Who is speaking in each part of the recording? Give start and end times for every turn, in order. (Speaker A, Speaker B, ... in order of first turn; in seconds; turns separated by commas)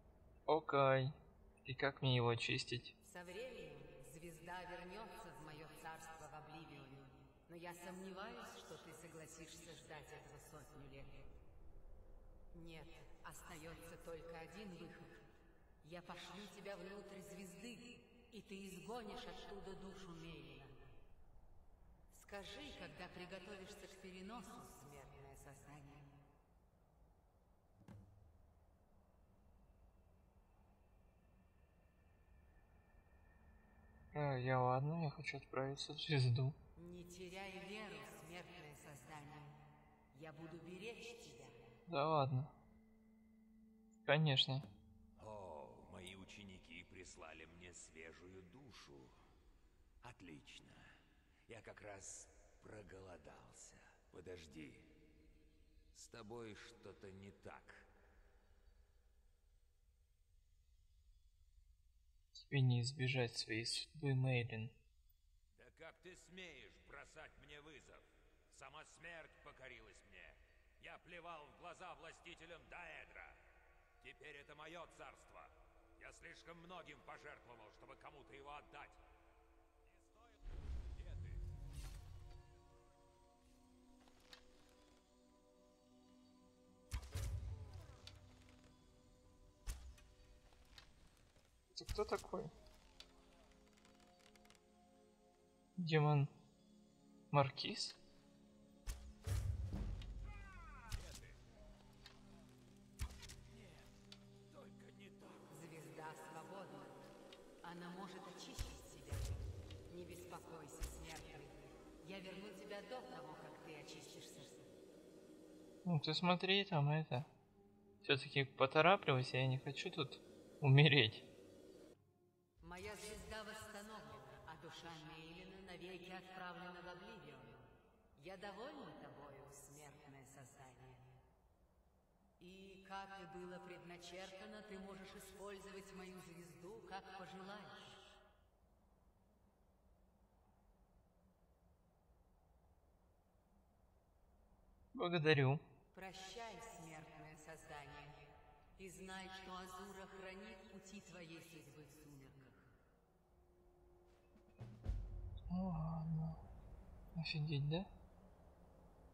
Speaker A: 0.5-2.9, Speaker B: 3.0-11.4, Speaker B: 12.5-15.2, Speaker B: 15.8-20.8, Speaker B: 22.1-26.1, Speaker A: 34.1-36.6, Speaker B: 36.8-39.6, Speaker B: 40.1-41.6, Speaker A: 41.9-42.6, Speaker A: 44.0-44.6, Speaker C: 45.2-49.1, Speaker C: 50.0-50.8, Speaker C: 51.5-54.9, Speaker C: 55.9-57.9, Speaker A: 62.5-64.8, Speaker C: 65.6-73.4, Speaker C: 74.0-79.0, Speaker C: 79.9-81.4, Speaker A: 91.7-92.5, Speaker A: 95.8-96.3, Speaker A: 97.3-98.0, Speaker C: 100.9-101.4, Speaker C: 103.5-103.9, Speaker C: 104.5-105.8, Speaker B: 105.5-107.0, Speaker B: 107.6-114.7, Speaker A: 115.8-117.3, Speaker A: 118.0-121.3, Speaker B: 122.6-131.1, Speaker B: 132.4-138.1, Speaker A: 144.9-145.6, Speaker B: 145.9-152.7, Speaker A: 155.5-156.4, Speaker A: 157.2-157.9